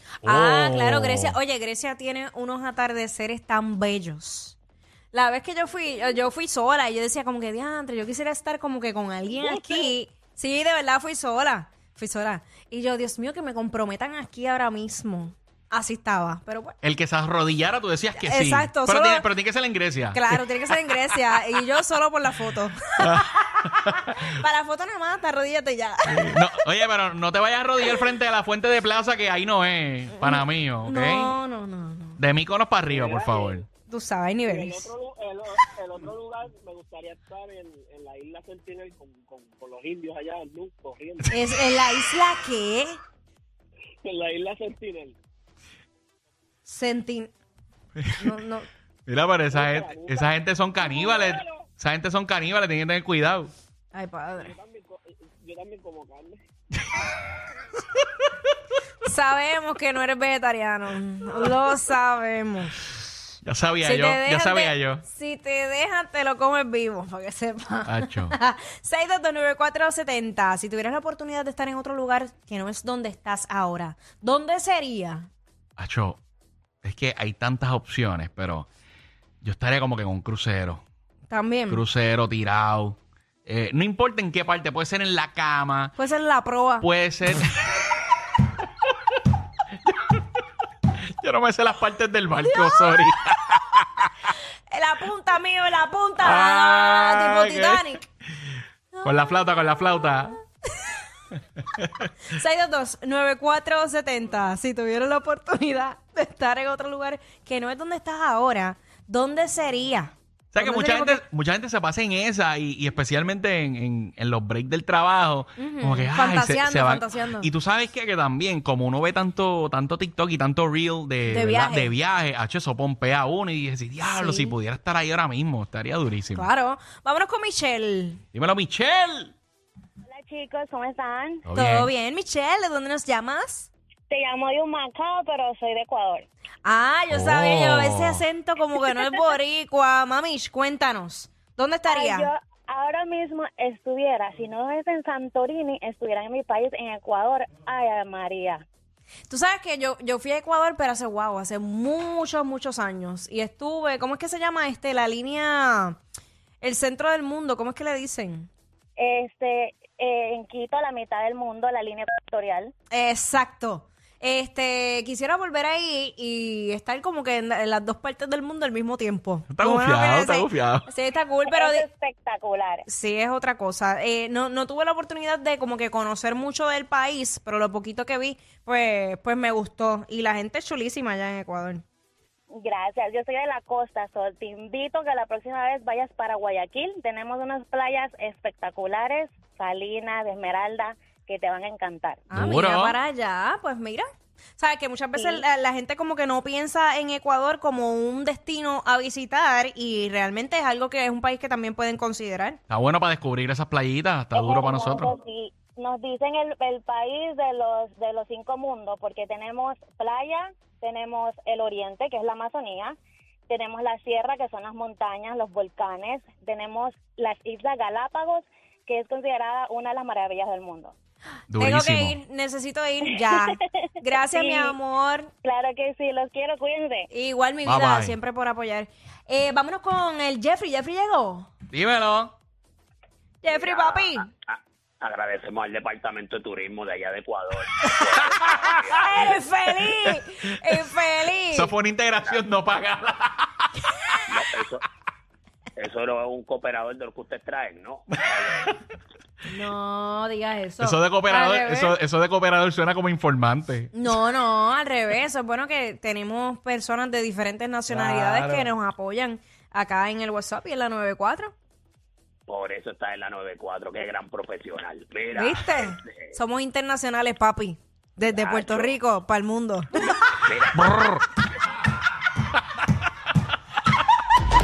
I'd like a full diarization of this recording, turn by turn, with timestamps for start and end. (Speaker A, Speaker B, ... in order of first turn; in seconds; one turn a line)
Speaker A: 0.2-4.6
Speaker B: 0.2-1.4
Speaker A: 5.1-16.7
Speaker C: 9.3-9.9
Speaker B: 16.8-20.4
Speaker A: 18.2-19.2
Speaker A: 20.1-23.5
Speaker B: 23.0-24.2
Speaker A: 24.1-26.4
Speaker B: 26.1-31.4
Speaker A: 30.1-32.2
Speaker B: 32.2-33.6
Speaker C: 32.9-33.6
Speaker A: 33.9-34.9
Speaker C: 34.5-41.5
Speaker A: 41.3-43.0
Speaker C: 44.0-45.2
Speaker A: 46.6-47.3
Speaker B: 48.0-48.3
Speaker A: 48.2-48.7
Speaker B: 49.1-53.5
Speaker C: 49.5-51.7
Speaker A: 53.9-54.5
Speaker C: 54.3-56.4
Speaker A: 59.0-63.0
Speaker B: 63.4-65.0
Speaker A: 63.8-75.3
Speaker B: 67.8-68.3
Speaker B: 75.8-76.2
Speaker B: 76.8-78.7
Speaker B: 79.4-80.8
Speaker A: 81.3-81.8
Speaker B: 81.7-85.9
Speaker A: 86.0-86.8
Speaker B: 86.8-87.7
Speaker B: 89.8-90.2
Speaker B: 91.2-94.1
Speaker A: 94.7-98.0
Speaker B: 96.2-97.9
Speaker B: 99.0-100.3
Speaker A: 100.7-101.0
Speaker B: 101.8-102.1
Speaker A: 102.3-111.2
Speaker B: 110.5-126.5
Speaker A: 115.6-117.5
Speaker A: 121.3-121.9
Speaker A: 124.0-124.5
Speaker A: 126.3-128.2
Speaker B: 128.3-129.3
Speaker D: 130.1-131.4
Speaker B: 131.4-131.9
Speaker A: 131.5-133.7
Speaker D: 134.1-136.3
Speaker A: 136.6-142.3
Speaker B: 137.1-138.2
Speaker D: 141.8-148.6
Speaker A: 149.3-156.0
Speaker A: 156.6-158.5
Speaker D: 159.0-162.7
Speaker A: 162.9-171.9
Speaker B: 169.5-170.9
Speaker D: 171.5-172.8
Speaker A: 172.9-181.8
Speaker D: 182.5-192.2
Speaker A: 192.3-194.1
Speaker B: 192.3-193.0
Speaker A: 194.6-202.6
Speaker D: 195.1-195.4
Speaker B: 202.7-205.1
Speaker D: 204.3-213.0
Speaker D: 213.5-220.9
Speaker B: 221.5-222.2
Speaker A: 221.6-225.3
Speaker D: 224.2-224.8
Speaker D: 225.4-227.1
Speaker A: 227.1-231.5
Speaker B: 227.6-228.2
Speaker B: 231.7-232.3
Speaker A: 233.4-234.3
Speaker E: 233.5-239.3
Speaker B: 238.3-238.8
Speaker A: 238.7-241.7
Speaker B: 241.5-243.7
Speaker E: 244.3-244.8
Speaker E: 245.8-248.6
Speaker B: 248.2-248.8
Speaker A: 249.4-251.9
Speaker B: 250.8-253.9
Speaker A: 253.9-261.5
Speaker B: 257.9-258.7
Speaker E: 262.5-265.9
Speaker A: 265.3-270.1
Speaker E: 268.3-268.9
Speaker E: 270.4-271.0
Speaker B: 270.8-271.2